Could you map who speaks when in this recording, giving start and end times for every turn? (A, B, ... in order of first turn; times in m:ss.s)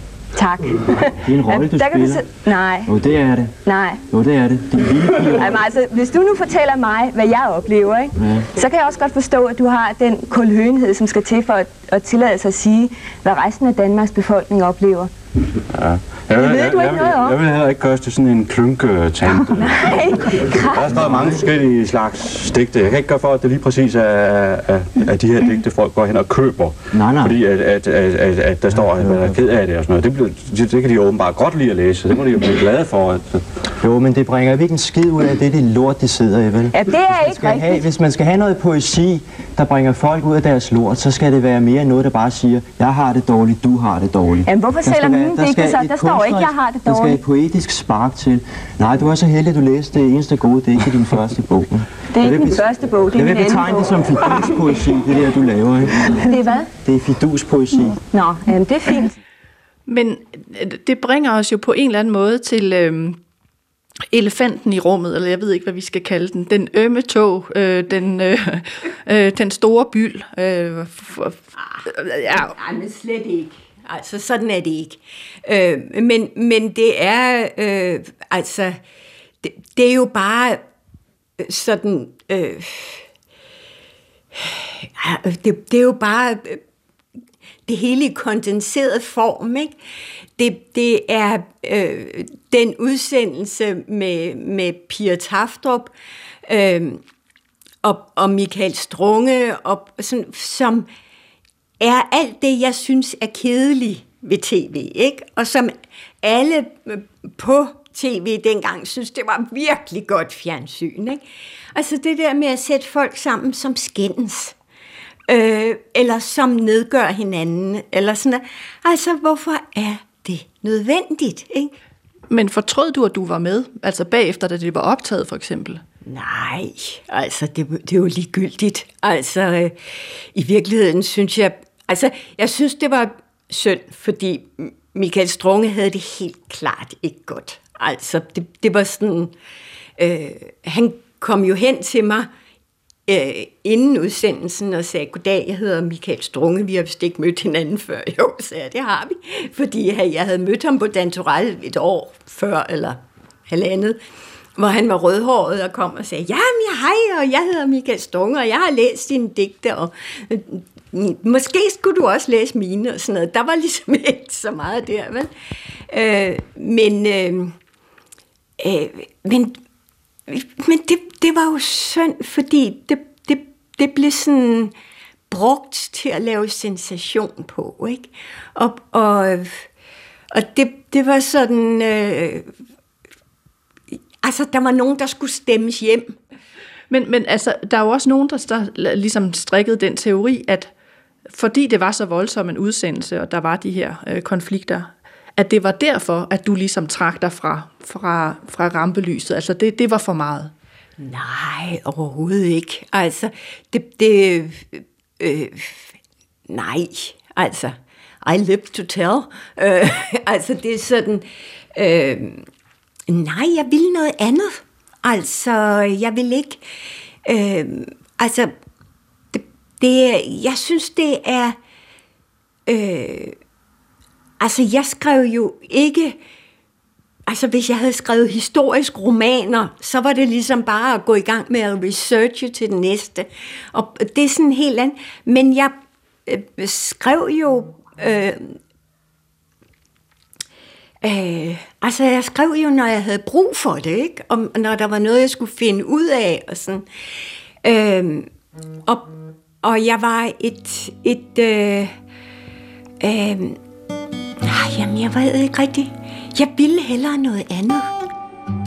0:00.3-0:02.9 A
0:01.2-0:02.2 B
0:02.8-0:03.5 B
0:03.6-0:04.0 A
0:04.1-0:05.6 B
0:05.2-0:15.1 A
0:08.2-0:08.5 B
0:15.7-0:33.4 C
0:16.4-0:17.4 A
0:19.6-0:20.8 A
0:20.9-0:21.5 B
0:26.9-0:27.4 B
0:28.9-0:29.4 B
0:33.8-0:58.0 B
0:36.7-0:37.8 A
0:44.4-0:47.2 A
0:52.1-0:54.5 A
0:56.1-0:56.7 A
0:58.1-0:59.1 A
0:59.8-1:03.2 D
1:04.1-1:12.5 D
1:11.6-1:18.8 E
1:19.4-1:20.6 E
1:21.4-1:23.0 E
1:24.3-1:26.6 E
1:27.7-1:29.7 E
1:30.4-1:35.9 E
1:36.4-1:37.0 E
1:37.8-1:40.9 E
1:41.8-1:51.2 E
1:51.7-1:54.6 E
1:55.3-2:01.7 E
2:02.3-2:05.8 D
2:06.0-2:19.3 E
2:20.0-2:22.3 E
2:23.1-2:33.0 E
2:33.5-2:34.0 E
2:34.6-2:45.3 E
2:45.9-2:47.6 E
2:48.6-2:49.6 E
2:50.3-2:54.7 E
2:55.3-2:59.6 E
3:00.3-3:02.5 E
3:04.2-3:06.2 E
3:06.9-3:10.7 D
3:11.3-3:20.5 D
3:21.0-3:26.0 E
3:26.5-3:32.5 E
3:33.1-3:36.6 E
3:37.2-3:38.5 E
3:39.3-3:41.6 E
3:42.7-3:43.4 E
3:44.4-3:46.2 E
3:47.3-3:55.7 E
3:56.3-3:58.6 E
4:01.0-4:06.8 E
4:07.6-4:08.3 E
4:08.9-4:11.9 E
4:13.0-4:13.6 E
4:14.4-4:17.9 E